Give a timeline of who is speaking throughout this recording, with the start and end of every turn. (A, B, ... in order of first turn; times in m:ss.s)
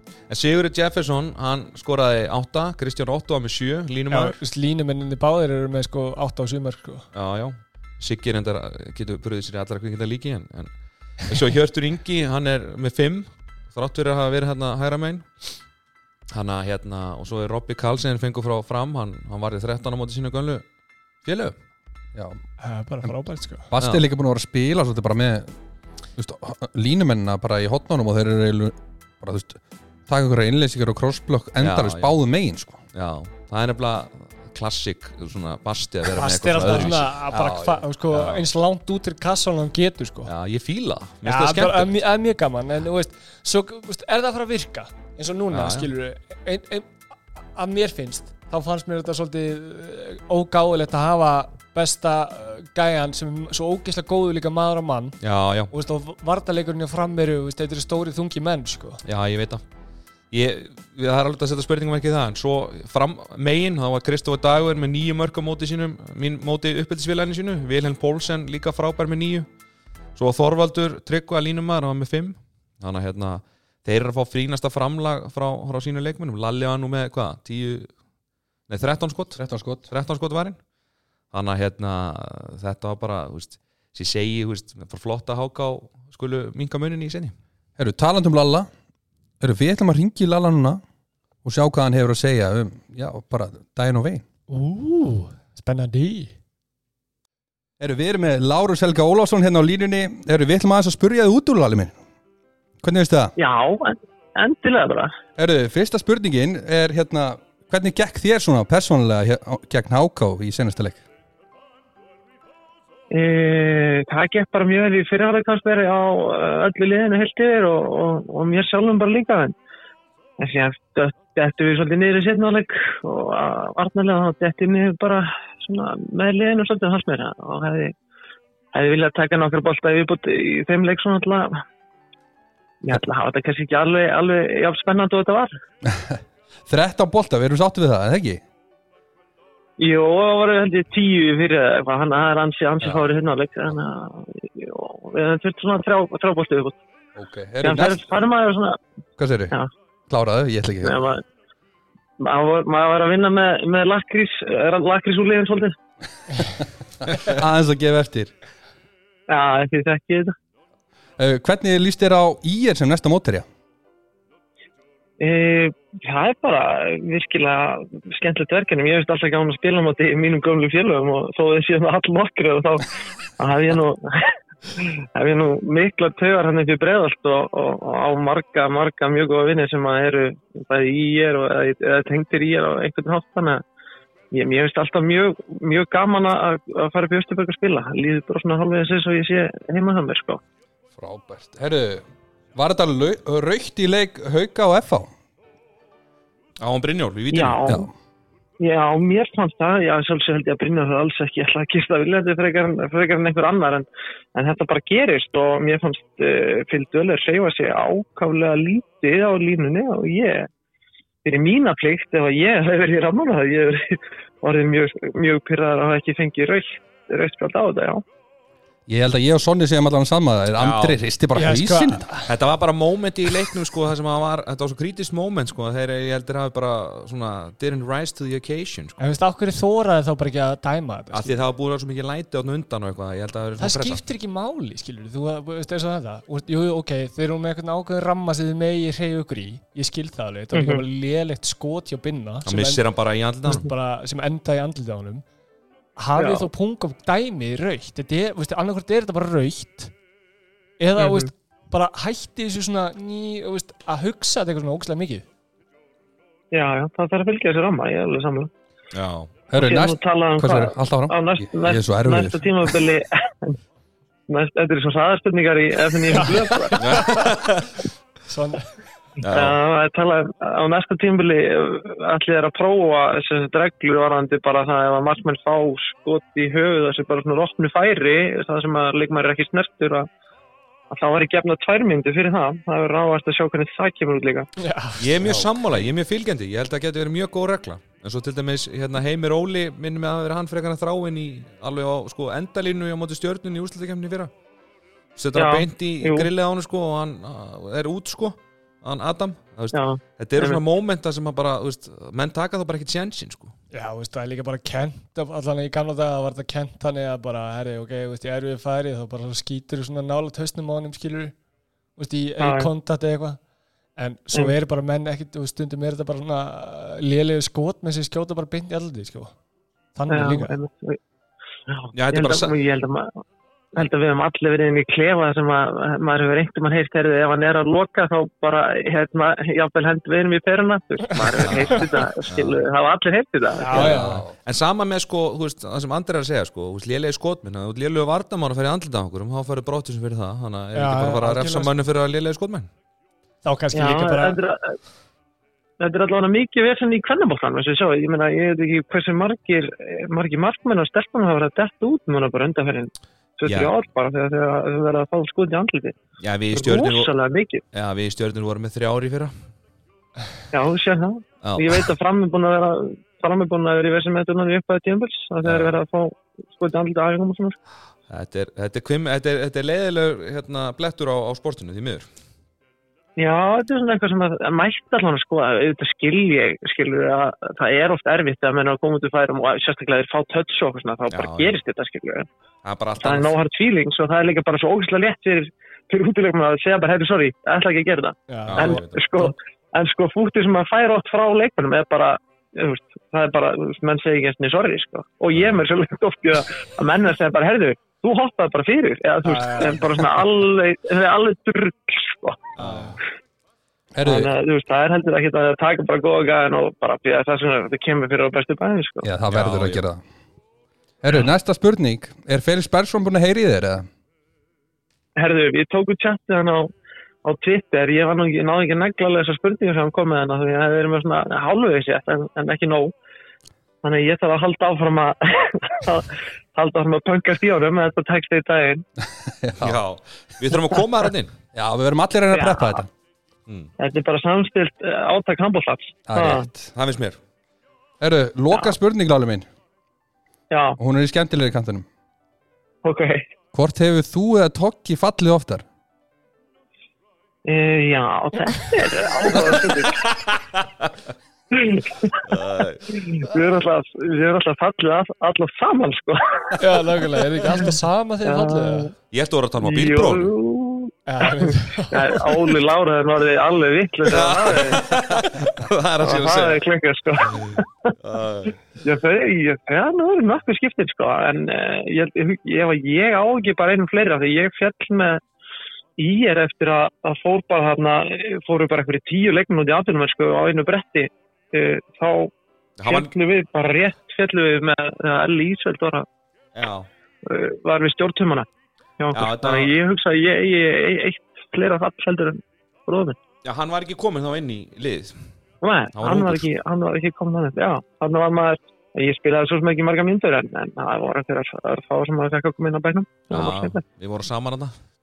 0:00.3-0:04.4 A
0:04.1-0:07.1 B
0:07.1-0:15.3 A
0:16.3-0:20.6 A
0:21.2-0:21.6 A
0:22.1-0:22.4 C
0:22.6-0:23.7 B
0:23.7-0:25.5 C
0:23.8-0:24.0 A
0:26.2-0:32.8 C
0:31.6-0:32.1 A
0:32.9-0:37.2 A
0:36.1-0:40.3 B
0:37.3-0:37.8 C
0:38.1-0:38.4 A
0:40.2-0:41.9 A
0:41.2-0:55.2 B
0:45.5-0:45.9 A
0:55.2-0:55.7 A
0:55.7-0:59.0 B
0:59.0-0:59.6 A
1:00.3-1:09.5 A
1:10.2-1:17.9 A
1:18.7-1:20.6 A
1:19.4-1:19.9 C
1:21.3-1:27.4 A
1:27.8-1:28.7 C
1:29.4-1:30.8 C
1:31.4-1:34.2 C
1:34.5-1:36.3 B
1:37.8-1:42.0 C
1:42.8-1:43.4 C
1:43.4-1:45.1 D
1:45.4-1:51.0 C
1:53.1-1:59.5 D
2:00.4-2:07.9 D
2:08.7-2:11.6 D
2:12.8-2:15.5 D
2:15.8-2:18.4 C
2:19.8-2:26.8 D
2:27.2-2:28.0 C
2:27.6-2:28.8 D
2:29.2-2:29.5 C
2:30.1-2:31.0 C
2:30.8-2:31.2 D
2:32.2-2:35.7 D
2:37.0-2:38.3 C
2:39.3-2:40.3 D
2:41.2-2:43.4 C
2:45.2-3:03.6 D
3:04.3-3:10.4 D
3:11.0-3:12.0 C
3:12.5-3:15.1 C
3:16.6-3:17.6 A
3:17.3-3:17.9 D
3:17.6-3:17.9 C
3:18.6-3:30.5 D
3:31.2-3:38.0 D
3:38.9-3:42.1 C
3:40.6-3:41.0 A
3:41.3-3:42.3 B
3:42.2-3:49.0 A
3:49.0-3:51.3 B
3:51.1-3:54.0 A
3:53.6-4:02.8 B
4:00.5-4:00.8 D
4:02.4-4:03.7 A
4:03.4-4:05.2 B
4:06.0-4:09.9 B
4:06.2-4:06.5 D
4:10.8-4:15.3 B
4:11.0-4:11.3 D
4:16.5-4:18.5 D
4:18.9-4:19.3 A
4:19.5-4:22.8 C
4:19.5-4:23.6 D
4:24.3-4:27.0 D
4:26.1-4:27.4 B
4:26.8-4:27.7 A
4:28.3-4:28.7 B
4:29.2-4:29.6 A
4:29.3-4:40.1 D
4:40.9-4:44.5 D
4:44.6-4:45.5 B
4:45.0-4:54.3 A
4:55.2-5:03.5 A
4:55.3-4:56.3 D
4:59.7-5:00.6 D
5:03.7-5:11.3 B
5:12.0-5:13.4 B
5:12.4-5:12.7 D
5:14.0-5:19.3 B
5:19.9-5:20.5 B
5:20.1-5:21.0 D
5:21.7-5:23.2 D
5:21.9-5:22.5 A
5:23.7-5:34.0 D
5:31.3-5:32.6 A
5:33.6-5:34.2 B
5:33.7-5:42.7 A
5:33.7-5:34.3 C
5:40.7-5:41.7 B
5:43.4-5:44.4 B
5:43.7-5:44.8 D
5:45.8-5:56.0 D
5:53.4-5:53.7 A
5:56.2-5:57.1 A
5:56.5-5:57.6 D
5:57.7-5:59.3 A
6:00.5-6:07.6 D
6:01.4-6:01.9 A
6:05.4-6:05.8 A
6:08.1-6:12.0 A
6:13.2-6:22.3 D
6:21.1-6:21.6 A
6:22.6-6:23.3 A
6:23.0-6:42.5 D
6:28.3-6:29.3 B
6:28.5-6:29.0 A
6:35.3-6:35.6 A
6:39.2-6:39.8 B
6:42.6-6:43.0 A
6:42.6-6:42.9 B
6:43.9-6:44.3 C
6:44.0-6:49.1 D
6:49.0-6:50.0 C
6:49.3-6:49.8 A
6:51.0-6:53.8 C
6:55.2-6:56.7 D
6:57.2-7:02.9 D
7:03.8-7:08.8 D
7:09.2-7:09.8 C
7:09.6-7:11.3 A
7:11.5-7:12.9 C
7:12.3-7:12.8 D
7:13.8-7:16.4 D
7:16.1-7:16.7 C
7:16.7-7:17.2 A
7:18.0-7:19.5 C
7:20.5-7:20.8 D
7:20.8-7:21.8 C
7:22.8-7:23.2 D
7:23.5-7:25.6 C
7:27.4-7:30.2 D
7:30.6-7:30.9 A
7:31.5-7:32.3 D
7:32.2-7:33.0 A
7:32.9-7:36.8 D
7:36.6-7:38.9 B
7:38.2-7:38.9 D
7:39.1-7:40.3 A
7:39.6-7:45.3 D
7:41.1-7:42.3 B
7:44.1-7:46.6 A
7:46.0-7:47.9 D
7:47.3-7:48.6 A
7:48.8-7:55.2 D
7:56.0-8:02.3 D
8:02.8-8:03.1 A
8:02.8-8:06.0 D
8:06.5-8:06.9 A
8:07.2-8:08.5 D
8:09.0-8:13.2 D
8:09.1-8:09.7 A
8:13.4-8:15.2 A
8:15.6-8:23.8 D
8:15.9-8:16.5 A
8:23.3-8:24.7 A